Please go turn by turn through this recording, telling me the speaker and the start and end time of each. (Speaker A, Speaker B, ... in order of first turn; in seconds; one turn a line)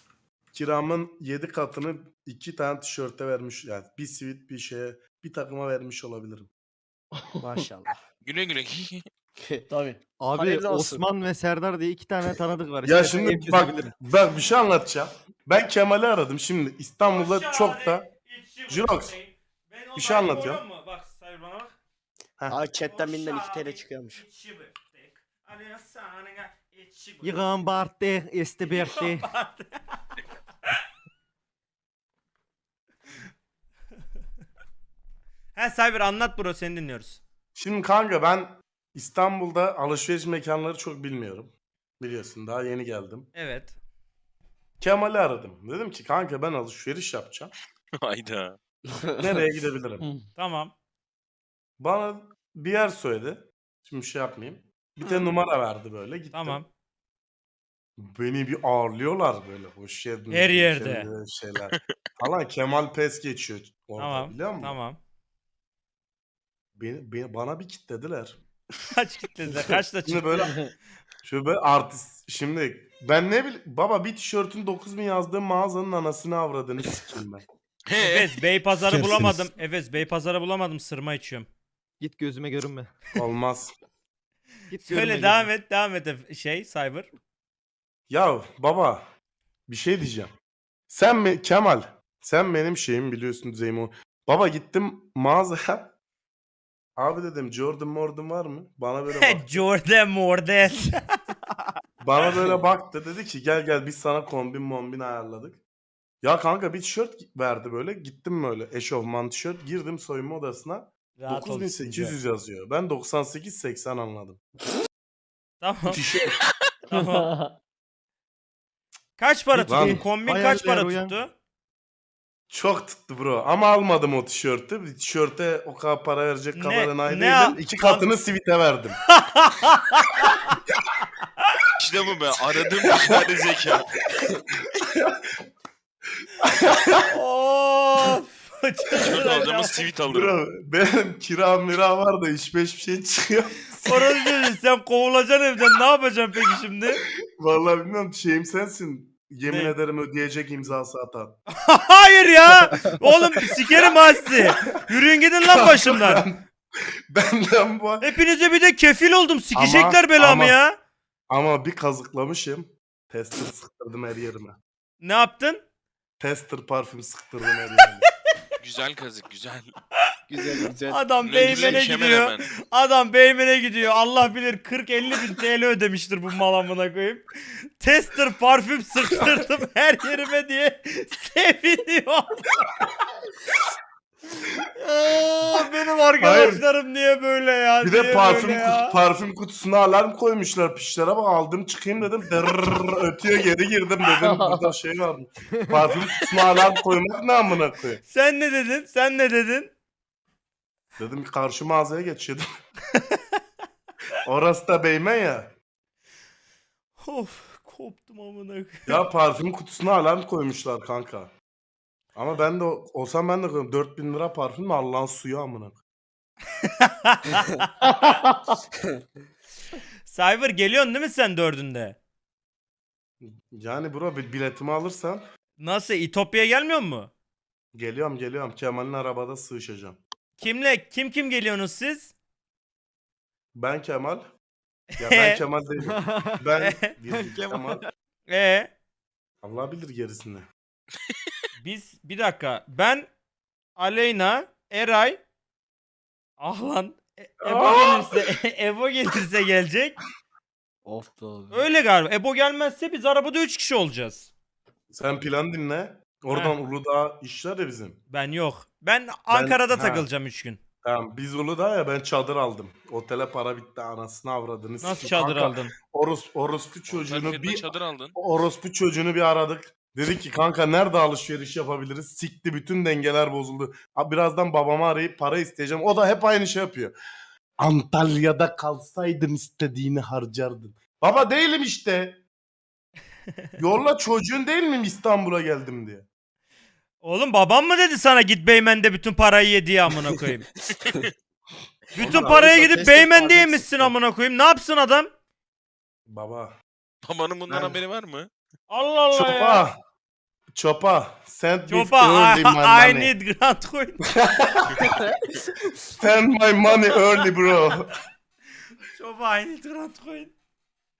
Speaker A: 0.5-6.5
Speaker B: 8.2-9.0
Speaker C: 9.7-11.1
Speaker D: 10.2-13.9
Speaker A: 12.8-18.1
Speaker E: 17.1-21.8
Speaker A: 18.7-19.1
Speaker A: 20.0-20.6
Speaker C: 22.5-24.2
Speaker E: 22.7-27.7
Speaker D: 27.2-29.3
Speaker E: 28.6-30.0
Speaker E: 35.6-37.2
Speaker A: 37.6-43.3
Speaker E: 43.3-43.7
Speaker A: 44.8-47.5
Speaker B: 48.0-48.6
Speaker A: 49.2-50.1
Speaker E: 50.4-50.7
Speaker A: 51.8-56.6
Speaker E: 56.3-56.7
Speaker A: 58.0-64.8
Speaker E: 60.3-61.1
Speaker E: 64.0-65.0
Speaker A: 66.8-68.4
Speaker E: 68.9-70.6
Speaker A: 70.1-70.6
Speaker A: 71.2-77.4
Speaker B: 77.9-78.3
Speaker E: 78.0-81.5
Speaker D: 79.0-79.3
Speaker D: 82.0-82.9
Speaker A: 83.2-83.7
Speaker D: 84.7-85.5
Speaker E: 84.9-87.1
Speaker A: 88.1-89.0
Speaker A: 89.7-90.3
Speaker A: 90.9-95.9
Speaker A: 97.0-99.7
Speaker E: 99.2-101.0
Speaker A: 102.0-105.6
Speaker A: 106.2-114.4
Speaker E: 111.2-111.7
Speaker E: 115.6-116.0
Speaker A: 115.9-116.4
Speaker E: 116.9-117.3
Speaker E: 119.2-121.3
Speaker D: 119.5-121.2
Speaker A: 119.7-120.0
Speaker A: 122.5-129.0
Speaker E: 126.6-128.1
Speaker E: 129.2-130.4
Speaker B: 131.8-134.0
Speaker A: 136.4-137.0
Speaker E: 137.1-139.8
Speaker B: 139.0-140.3
Speaker A: 140.0-144.2
Speaker E: 143.8-147.0
Speaker A: 147.4-151.4
Speaker E: 149.5-149.7
Speaker E: 151.6-156.2
Speaker A: 155.5-156.4
Speaker A: 157.1-158.1
Speaker E: 158.0-160.8
Speaker A: 159.6-160.6
Speaker A: 161.3-164.6
Speaker E: 165.0-165.6
Speaker A: 166.2-168.1
Speaker B: 168.6-169.7
Speaker E: 170.8-177.2
Speaker B: 171.2-172.4
Speaker E: 177.8-182.5
Speaker E: 184.8-188.9
Speaker A: 186.2-186.6
Speaker A: 187.8-198.0
Speaker E: 198.1-199.7
Speaker A: 201.0-202.4
Speaker A: 204.2-205.5
Speaker E: 207.0-209.0
Speaker A: 208.9-211.3
Speaker A: 212.2-215.8
Speaker E: 216.8-217.6
Speaker E: 220.1-222.0
Speaker A: 223.2-225.2
Speaker E: 225.6-227.1
Speaker A: 227.7-230.0
Speaker E: 230.4-232.1
Speaker A: 233.6-234.2
Speaker A: 235.0-237.8
Speaker E: 235.1-235.4
Speaker D: 235.9-236.3
Speaker D: 237.2-237.7
Speaker E: 238.3-238.7
Speaker A: 239.4-240.4
Speaker E: 241.6-243.1
Speaker E: 243.8-245.2
Speaker E: 246.4-250.0
Speaker A: 247.4-248.1
Speaker E: 251.5-254.3
Speaker A: 254.9-258.0
Speaker E: 256.3-256.6
Speaker E: 258.1-260.6
Speaker A: 259.3-260.1
Speaker A: 260.8-276.9
Speaker E: 264.8-265.7
Speaker B: 266.9-268.1
Speaker A: 277.6-282.2
Speaker A: 283.6-286.1
Speaker E: 287.0-290.4
Speaker B: 290.8-291.1
Speaker E: 292.0-295.1
Speaker A: 292.0-292.9
Speaker A: 296.1-296.5
Speaker B: 297.1-298.3
Speaker A: 297.5-297.8
Speaker E: 298.7-299.6
Speaker A: 299.1-299.8
Speaker A: 300.5-303.1
Speaker E: 301.7-304.0
Speaker A: 304.2-304.7
Speaker B: 304.7-305.0
Speaker A: 306.0-307.9
Speaker E: 308.9-310.3